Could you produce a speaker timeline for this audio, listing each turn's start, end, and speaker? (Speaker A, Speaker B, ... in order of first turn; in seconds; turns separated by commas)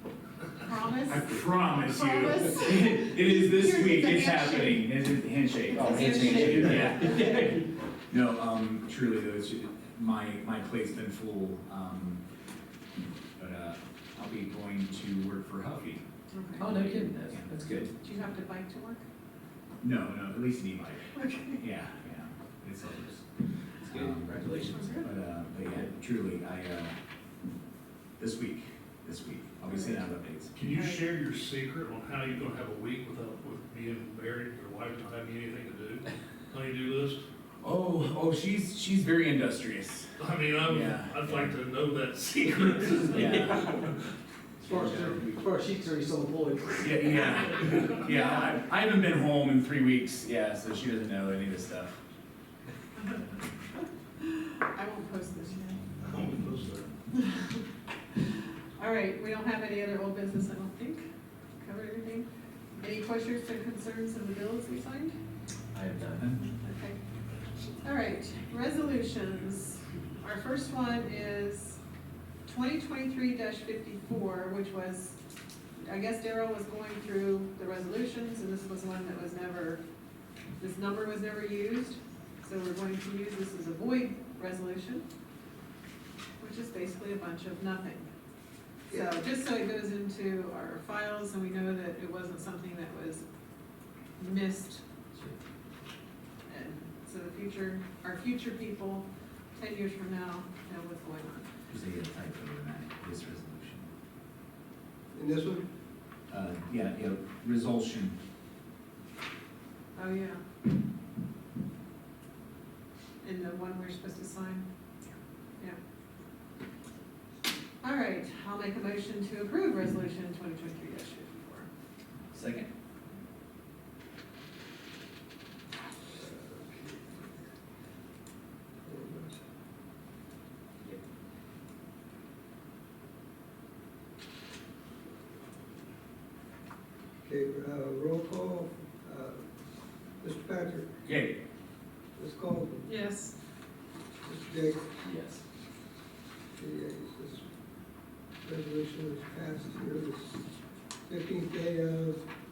Speaker A: 0.6-4.9, Speaker B: 1.0-7.4, Speaker A: 5.7-7.5, Speaker C: 5.8-7.7, Speaker B: 8.1-12.2, Speaker B: 13.4-16.0, Speaker A: 16.3-16.7, Speaker C: 16.6-17.9, Speaker B: 16.6-17.9, Speaker A: 18.0-19.0, Speaker B: 19.8-23.2, Speaker A: 21.1-21.6, Speaker C: 23.8-25.1, Speaker B: 23.8-27.0, Speaker B: 28.2-30.6, Speaker A: 29.7-30.0, Speaker D: 30.5-37.2, Speaker A: 30.7-31.0, Speaker B: 37.6-41.5, Speaker D: 40.2-43.9, Speaker B: 43.1-43.7, Speaker C: 43.2-43.8, Speaker C: 44.6-47.9, Speaker B: 44.6-45.4, Speaker B: 46.8-52.0, Speaker A: 48.1-48.6, Speaker A: 53.0-55.8, Speaker D: 56.0-56.9, Speaker A: 57.1-61.0, Speaker A: 61.6-65.1, Speaker C: 65.7-66.3, Speaker A: 66.3-67.0, Speaker A: 67.8-71.8, Speaker A: 72.5-75.2, Speaker A: 75.8-79.8, Speaker A: 80.6-85.0, Speaker A: 86.4-88.1, Speaker A: 88.9-93.2, Speaker E: 88.9-89.2, Speaker A: 94.2-94.8, Speaker A: 96.5-101.5, Speaker B: 101.7-103.9, Speaker E: 105.1-105.6, Speaker B: 106.3-108.2, Speaker A: 110.0-110.4, Speaker A: 113.2-114.7, Speaker A: 117.8-121.7, Speaker C: 122.3-122.7, Speaker E: 126.1-127.4, Speaker E: 128.8-129.4, Speaker E: 137.2-139.4, Speaker E: 140.2-140.9, Speaker B: 141.1-141.4, Speaker E: 142.2-142.9, Speaker A: 142.9-143.4, Speaker E: 144.2-145.0, Speaker C: 145.0-145.4, Speaker E: 146.6-147.4, Speaker E: 148.4-150.4, Speaker E: 151.1-152.2